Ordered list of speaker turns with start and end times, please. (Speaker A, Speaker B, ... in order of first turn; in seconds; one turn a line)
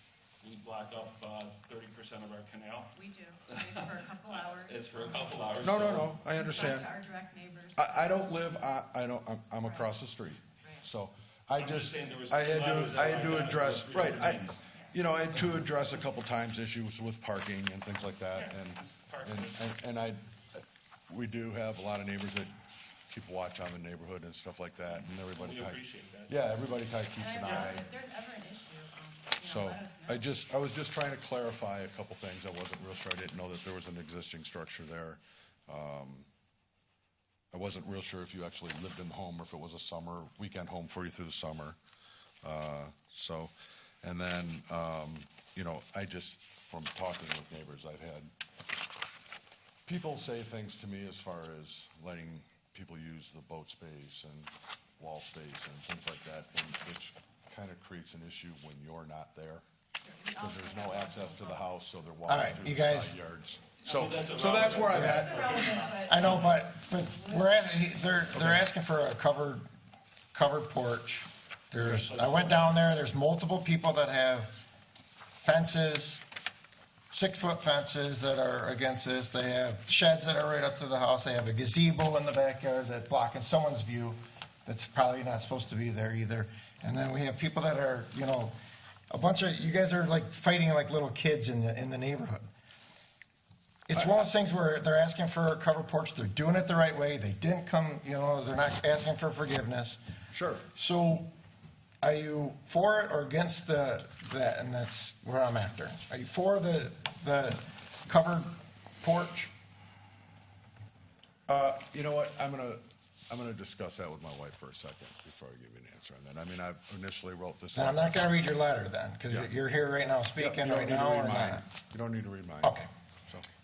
Speaker A: 0.4-2.9
Speaker B: 3.0-5.6
Speaker A: 3.5-6.2
Speaker C: 5.6-6.9
Speaker B: 6.3-8.2
Speaker C: 7.8-22.5
Speaker B: 9.6-10.0
Speaker B: 10.6-10.9
Speaker A: 11.6-14.6
Speaker A: 18.3-19.6
Speaker C: 23.1-27.9
Speaker A: 25.3-26.4
Speaker B: 27.2-30.4
Speaker A: 27.4-27.8
Speaker C: 29.4-36.3
Speaker C: 37.5-41.8
Speaker C: 42.4-43.5
Speaker C: 44.0-48.3
Speaker C: 49.9-59.6
Speaker B: 60.0-61.8
Speaker C: 60.4-65.7
Speaker D: 62.3-63.2
Speaker A: 63.9-66.5
Speaker D: 64.9-65.2
Speaker B: 65.1-67.7
Speaker D: 66.0-69.7
Speaker D: 70.3-74.6
Speaker A: 71.8-72.8
Speaker D: 75.4-76.2
Speaker D: 77.1-88.5
Speaker D: 89.1-92.5
Speaker D: 93.9-100.0
Speaker C: 100.3-100.7
Speaker D: 100.8-101.3
Speaker D: 102.0-109.5
Speaker C: 111.5-118.4
Speaker D: 117.7-121.6
Speaker C: 120.4-122.8
Speaker D: 122.6-122.9